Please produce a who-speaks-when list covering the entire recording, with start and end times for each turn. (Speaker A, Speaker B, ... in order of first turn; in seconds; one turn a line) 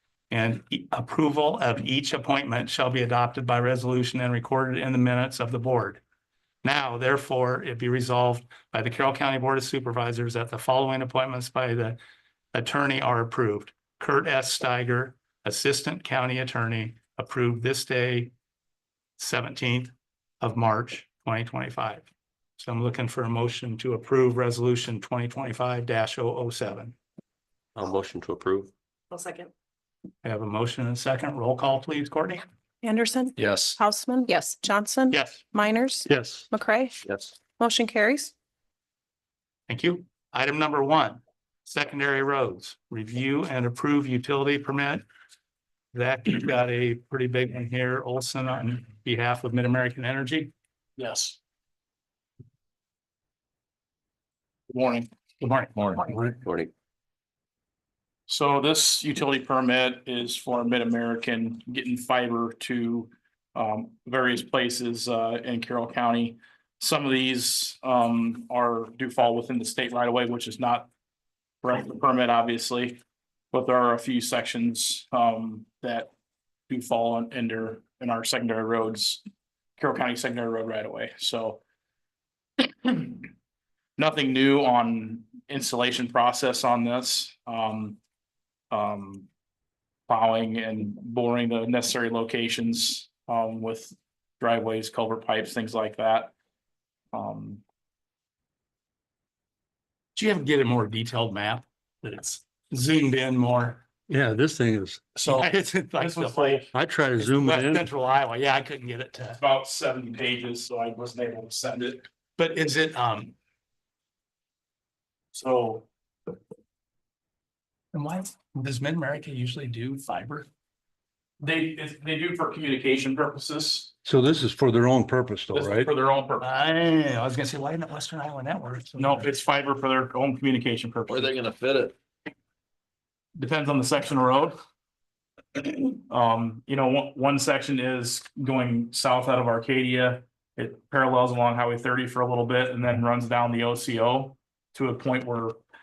Speaker A: 0.3-6.0
Speaker A: 6.6-12.0
Speaker A: 12.5-18.3
Speaker A: 19.2-26.9
Speaker B: 27.8-28.7
Speaker C: 29.1-29.5
Speaker A: 30.2-32.4
Speaker C: 32.8-38.3
Speaker B: 33.4-33.8
Speaker A: 35.1-35.4
Speaker D: 36.1-36.5
Speaker B: 37.0-37.4
Speaker A: 39.7-45.0
Speaker A: 45.9-50.5
Speaker E: 51.0-51.4
Speaker E: 54.7-55.1
Speaker A: 55.4-56.0
Speaker E: 55.7-56.0
Speaker B: 56.4-56.7
Speaker E: 58.3-70.9
Speaker E: 71.6-73.0
Speaker E: 73.5-76.1
Speaker E: 76.7-79.2
Speaker E: 79.8-81.6
Speaker E: 82.8-83.3
Speaker E: 84.0-88.0
Speaker E: 88.7-89.3
Speaker E: 90.1-96.3
Speaker E: 97.1-97.6
Speaker A: 100.1-103.8
Speaker D: 104.1-105.0
Speaker E: 105.1-106.7
Speaker A: 105.2-109.4
Speaker D: 106.7-107.9
Speaker E: 109.4-112.0
Speaker A: 112.4-113.3
Speaker E: 115.3-115.9
Speaker A: 117.9-120.5
Speaker E: 121.4-123.9
Speaker D: 124.0-125.9
Speaker E: 125.5-126.5
Speaker A: 126.4-129.3
Speaker E: 129.0-131.3
Speaker B: 131.1-131.9
Speaker E: 133.3-134.6
Speaker E: 135.9-145.6